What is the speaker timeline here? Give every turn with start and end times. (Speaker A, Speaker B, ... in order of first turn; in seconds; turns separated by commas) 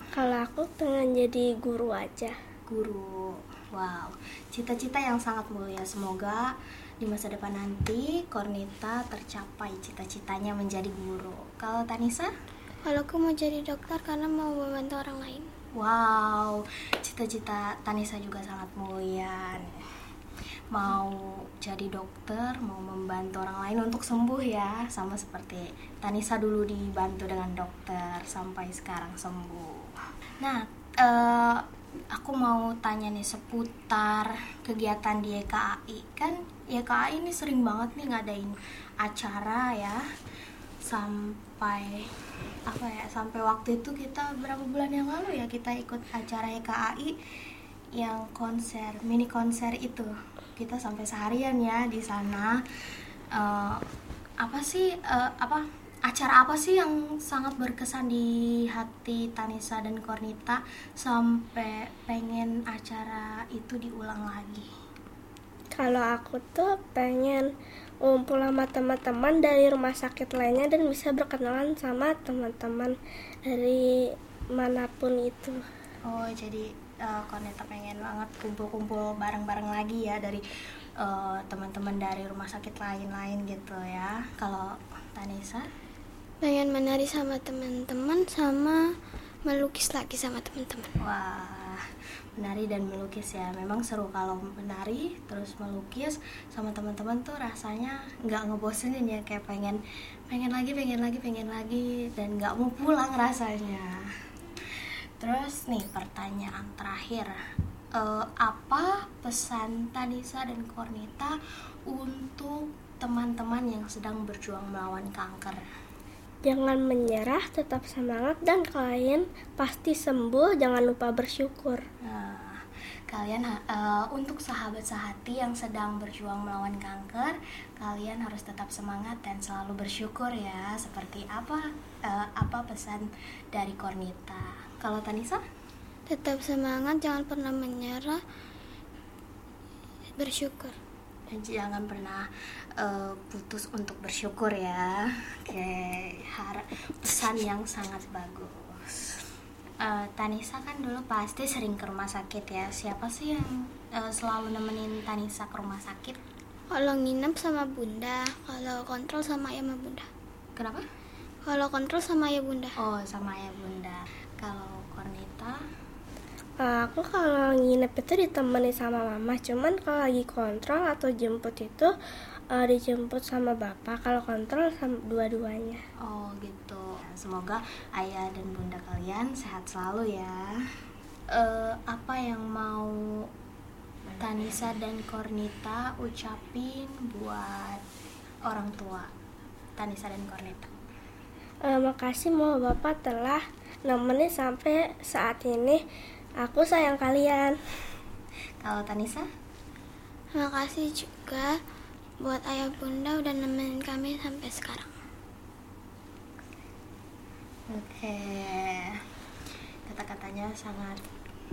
Speaker A: 0.1-2.4, Speaker B: 2.7-12.3, Speaker C: 12.8-15.5, Speaker B: 15.8-19.7, Speaker B: 20.7-29.9, Speaker B: 30.4-40.0, Speaker B: 40.9-42.1, Speaker B: 42.6-47.1, Speaker B: 48.0-52.6, Speaker B: 53.3-53.8, Speaker B: 54.4-64.7, Speaker A: 65.8-67.5, Speaker A: 68.0-75.6, Speaker B: 76.0-80.4, Speaker B: 81.0-85.7, Speaker C: 86.4-88.8, Speaker C: 89.5-91.0, Speaker B: 91.0-91.8, Speaker B: 92.4-99.8, Speaker B: 100.3-104.0, Speaker B: 105.2-107.4, Speaker B: 108.0-111.4, Speaker B: 111.9-115.6, Speaker A: 116.5-121.8, Speaker B: 122.0-135.4, Speaker C: 136.1-138.2, Speaker C: 140.2-140.8, Speaker B: 141.3-149.2, Speaker B: 149.8-156.2, Speaker C: 156.7-160.1, Speaker B: 160.6-160.8, Speaker C: 161.5-162.8, Speaker B: 162.8-165.6, Speaker A: 166.6-171.9, Speaker A: 172.5-175.8, Speaker B: 176.0-180.4, Speaker B: 181.3-183.0, Speaker B: 184.2-187.8, Speaker B: 188.5-189.1, Speaker B: 189.8-190.7, Speaker A: 191.7-195.8, Speaker A: 196.4-197.6, Speaker B: 198.6-199.3, Speaker C: 200.3-201.5, Speaker C: 202.2-204.9, Speaker B: 207.7-209.0, Speaker B: 209.9-211.0